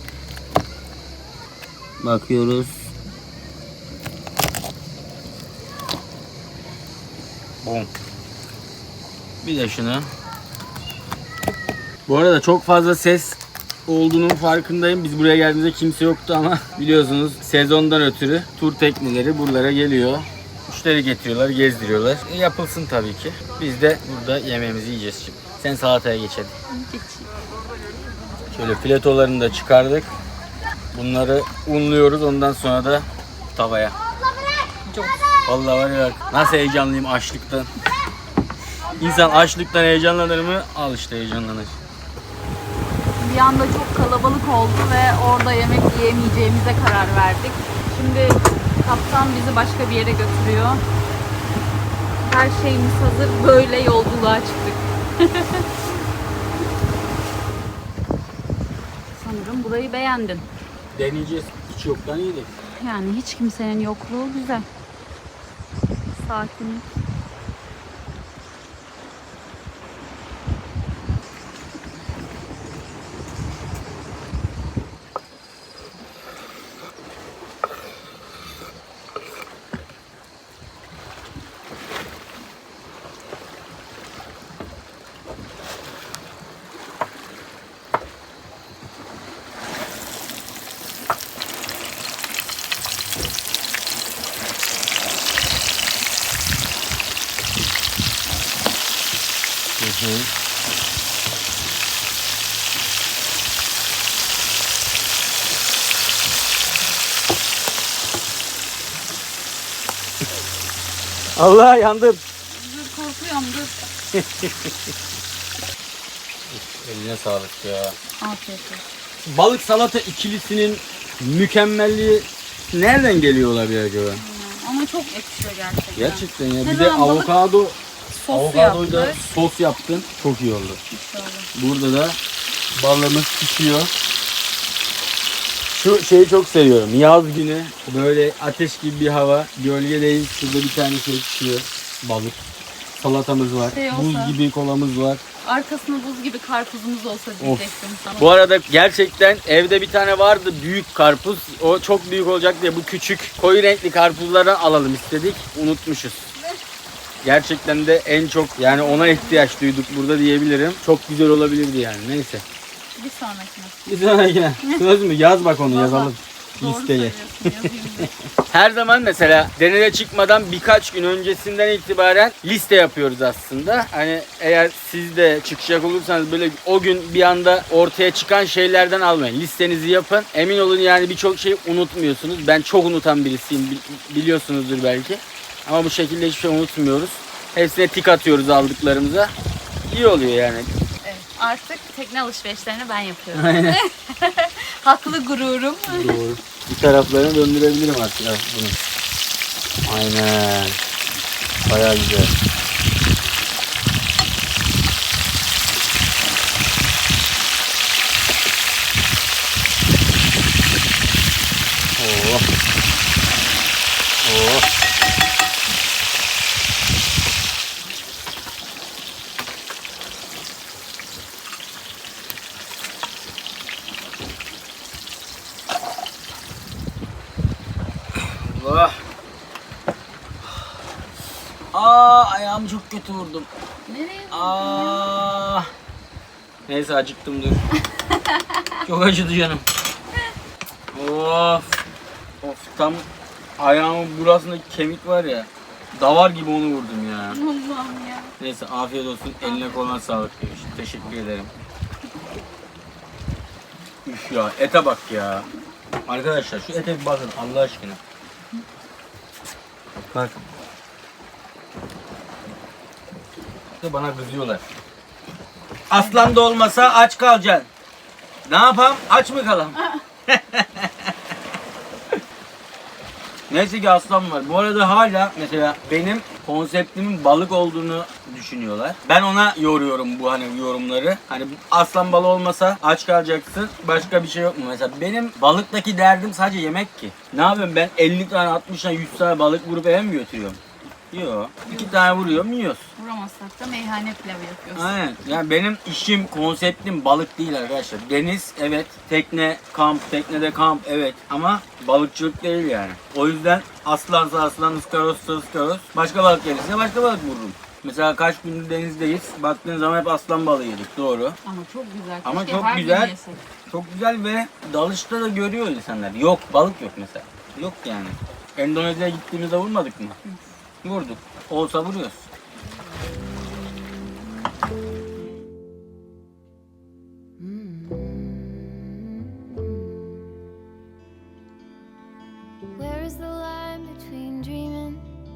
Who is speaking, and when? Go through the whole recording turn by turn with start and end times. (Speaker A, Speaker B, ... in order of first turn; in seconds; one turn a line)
Speaker A: 2.0-2.9
Speaker A: 7.6-7.9
Speaker A: 9.4-10.1
Speaker A: 12.1-26.5
Speaker B: 26.7-27.3
Speaker A: 28.5-30.1
Speaker A: 30.9-34.0
Speaker B: 34.9-35.2
Speaker A: 35.5-37.7
Speaker B: 39.0-39.5
Speaker A: 39.0-41.7
Speaker B: 43.2-50.8
Speaker B: 52.2-55.7
Speaker B: 59.1-60.5
Speaker A: 60.9-62.5
Speaker B: 62.8-64.7
Speaker B: 66.2-66.8
Speaker A: 99.8-100.3
Speaker A: 111.4-112.2
Speaker B: 112.5-113.9
Speaker A: 114.1-114.7
Speaker A: 116.5-118.0
Speaker B: 118.2-118.8
Speaker A: 119.2-124.2
Speaker B: 124.2-127.3
Speaker A: 126.0-127.8
Speaker B: 128.1-129.2
Speaker A: 128.3-130.8
Speaker B: 130.9-131.5
Speaker A: 131.6-132.2
Speaker A: 132.8-133.9
Speaker A: 135.7-142.4
Speaker A: 143.0-145.2
Speaker B: 143.6-144.4
Speaker B: 145.4-148.3
Speaker A: 148.2-156.2
Speaker A: 157.2-162.4
Speaker B: 158.6-159.5
Speaker B: 163.0-163.9
Speaker A: 163.9-189.3
Speaker B: 165.6-168.1
Speaker A: 189.9-190.7
Speaker B: 191.0-196.2
Speaker A: 193.3-193.8
Speaker A: 195.9-198.8
Speaker A: 199.9-200.8
Speaker A: 201.7-202.3
Speaker A: 212.0-212.5
Speaker A: 214.2-214.7
Speaker A: 228.2-229.0
Speaker A: 231.7-233.5
Speaker B: 233.9-235.2
Speaker A: 234.3-235.7
Speaker A: 236.7-237.6
Speaker B: 238.1-238.7
Speaker A: 238.8-239.6
Speaker A: 240.9-241.8
Speaker A: 242.4-243.1
Speaker A: 243.6-247.4
Speaker B: 247.3-248.3
Speaker A: 248.4-251.5
Speaker B: 249.4-249.9
Speaker A: 254.1-255.5
Speaker A: 256.1-258.0
Speaker A: 263.8-264.6
Speaker A: 265.9-267.7
Speaker A: 268.4-271.1
Speaker A: 273.5-292.9
Speaker B: 291.7-292.1
Speaker B: 293.0-295.0
Speaker A: 294.8-311.4
Speaker B: 311.4-313.4
Speaker A: 312.2-313.1
Speaker A: 313.7-320.2
Speaker A: 320.8-322.3
Speaker C: 322.7-324.2
Speaker C: 327.4-330.3
Speaker C: 332.7-335.1